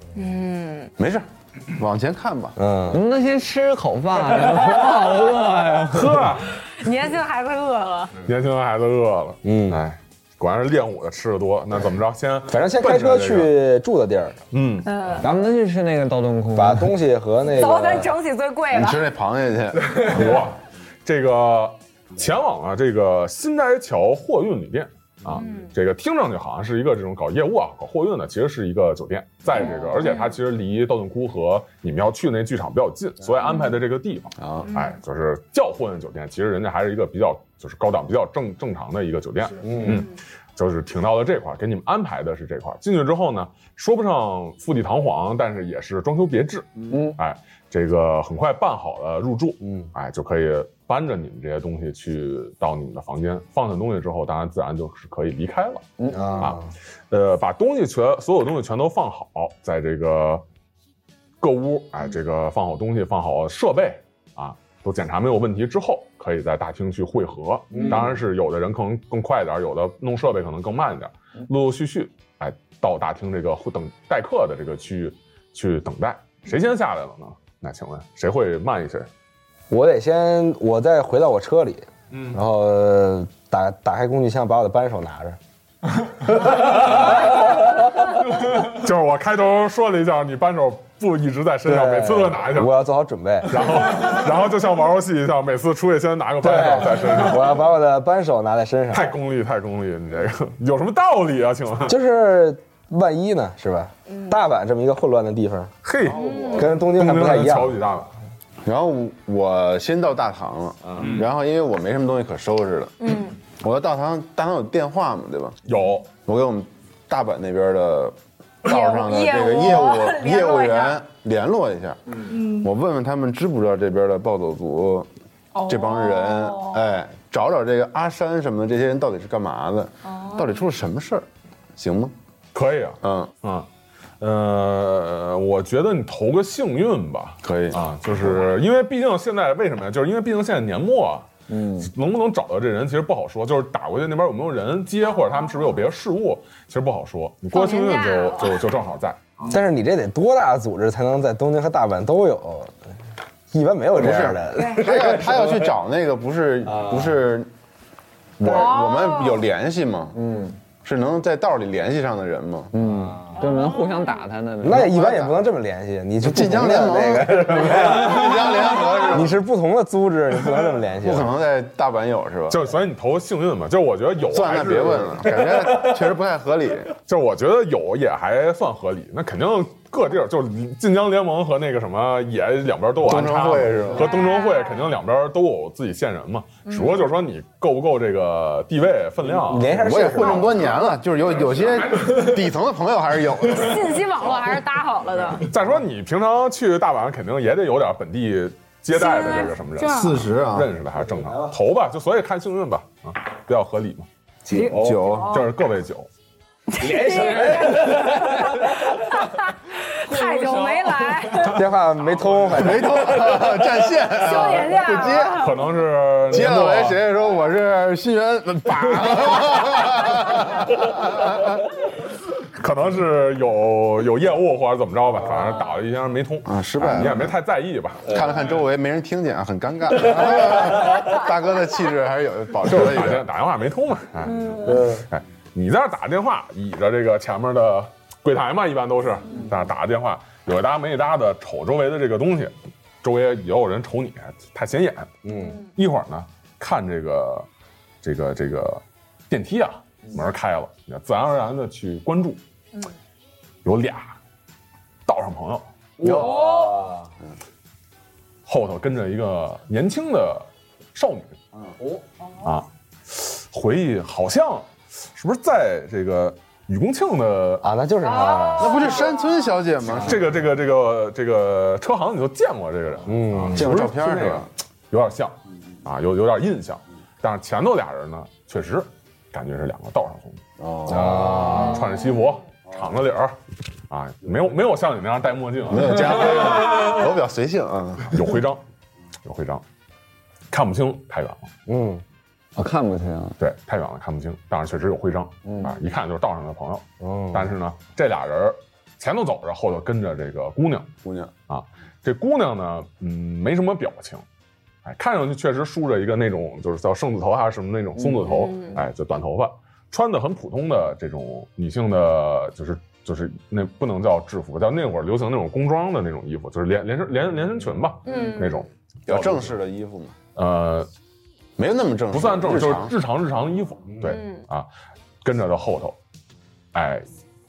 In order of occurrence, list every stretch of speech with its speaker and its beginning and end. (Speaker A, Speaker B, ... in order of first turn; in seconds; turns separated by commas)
Speaker A: 0.1-0.9, Speaker B: 1.0-2.5, Speaker C: 2.5-3.0, Speaker D: 2.9-6.3, Speaker E: 5.9-6.5, Speaker A: 6.7-8.2, Speaker E: 8.2-13.5, Speaker C: 9.4-9.8, Speaker C: 12.5-14.4, Speaker E: 14.5-14.9, Speaker A: 14.9-15.3, Speaker D: 15.2-16.9, Speaker C: 16.5-18.1, Speaker A: 17.5-19.0, Speaker B: 18.7-20.3, Speaker E: 19.9-55.9, Speaker A: 25.3-25.7, Speaker A: 29.5-30.4, Speaker B: 34.4-34.7, Speaker C: 39.6-40.0, Speaker D: 46.9-47.2, Speaker C: 49.6-49.9, Speaker D: 56.0-56.5, Speaker C: 56.1-56.7, Speaker E: 56.4-60.5, Speaker E: 61.4-79.1, Speaker C: 67.7-68.0, Speaker C: 79.7-85.4, Speaker E: 82.1-82.4, Speaker C: 86.2-87.6, Speaker E: 86.8-87.3, Speaker E: 88.3-92.8, Speaker C: 91.6-93.8, Speaker E: 93.5-97.6, Speaker C: 96.4-99.1, Speaker E: 98.9-102.0, Speaker C: 101.8-105.7, Speaker A: 104.1-104.4, Speaker E: 105.8-108.1, Speaker A: 106.1-106.7, Speaker C: 106.5-107.8, Speaker B: 108.6-115.6, Speaker E: 111.0-111.2, Speaker A: 113.0-113.3, Speaker E: 115.7-116.1, Speaker B: 116.2-125.1, Speaker A: 118.6-121.0, Speaker A: 122.3-122.7, Speaker A: 125.5-126.9, Speaker B: 125.7-131.2, Speaker A: 130.1-130.6, Speaker B: 131.8-132.1, Speaker E: 132.5-133.7, Speaker B: 133.0-133.3, Speaker E: 134.2-149.5, Speaker B: 137.4-137.8, Speaker D: 141.5-141.9, Speaker A: 147.5-148.6, Speaker C: 149.5-152.8, Speaker C: 153.5-155.7, Speaker B: 154.0-157.5, Speaker A: 154.5-154.9, Speaker C: 156.7-157.2, Speaker B: 158.4-160.2, Speaker A: 158.4-159.5, Speaker D: 160.1-160.5, Speaker B: 160.8-162.7, Speaker D: 162.7-165.0, Speaker C: 162.8-163.3, Speaker A: 163.4-164.1, Speaker C: 164.6-171.3, Speaker B: 164.8-165.4, Speaker B: 166.2-169.4, Speaker B: 171.0-172.6, Speaker E: 172.5-175.5, Speaker B: 174.3-176.9, Speaker E: 177.1-189.7, Speaker B: 183.0-184.1, Speaker A: 184.0-184.9, Speaker A: 186.7-187.0, Speaker C: 189.4-190.6, Speaker B: 189.7-194.1, Speaker A: 190.2-191.0, Speaker E: 191.5-192.2, Speaker A: 193.5-195.5, Speaker E: 195.4-204.1, Speaker A: 198.9-200.2, Speaker B: 199.8-200.7, Speaker C: 201.2-201.5, Speaker B: 204.5-205.4, Speaker C: 204.5-205.1, Speaker A: 204.5-205.5, Speaker E: 205.3-206.1, Speaker A: 206.7-211.7, Speaker C: 206.8-208.8, Speaker C: 211.4-213.4, Speaker B: 212.5-215.5, Speaker A: 214.1-215.6, Speaker E: 215.3-217.0, Speaker B: 216.3-221.6, Speaker E: 222.4-228.4, Speaker B: 226.5-227.3, Speaker B: 228.1-233.2, Speaker E: 232.6-247.5, Speaker A: 234.3-234.8, Speaker C: 234.6-235.1, Speaker C: 245.2-245.6, Speaker E: 248.0-252.4, Speaker E: 253.6-254.2, Speaker E: 255.1-256.3, Speaker C: 256.0-257.0, Speaker A: 256.1-256.8, Speaker E: 258.5-261.4, Speaker E: 262.4-267.7, Speaker C: 267.6-268.9, Speaker A: 268.0-269.6, Speaker B: 268.6-270.4, Speaker E: 269.9-283.4, Speaker C: 273.1-273.8, Speaker B: 273.5-274.5, Speaker B: 280.6-281.6, Speaker C: 280.9-281.9, Speaker E: 283.9-286.4, Speaker B: 285.7-288.2, Speaker E: 288.1-288.6, Speaker E: 289.2-289.6, Speaker E: 290.5-291.5, Speaker C: 291.7-292.0, Speaker D: 292.6-293.4, Speaker E: 293.4-300.9, Speaker D: 295.4-295.7, Speaker C: 297.0-297.5, Speaker B: 301.0-301.3, Speaker E: 301.5-304.2, Speaker E: 304.8-319.6, Speaker A: 308.1-308.8, Speaker A: 318.1-318.6, Speaker B: 319.1-320.1, Speaker E: 320.4-320.9, Speaker B: 321.6-322.9, Speaker E: 322.1-324.7, Speaker A: 324.0-324.4, Speaker E: 325.2-326.0, Speaker E: 326.7-327.1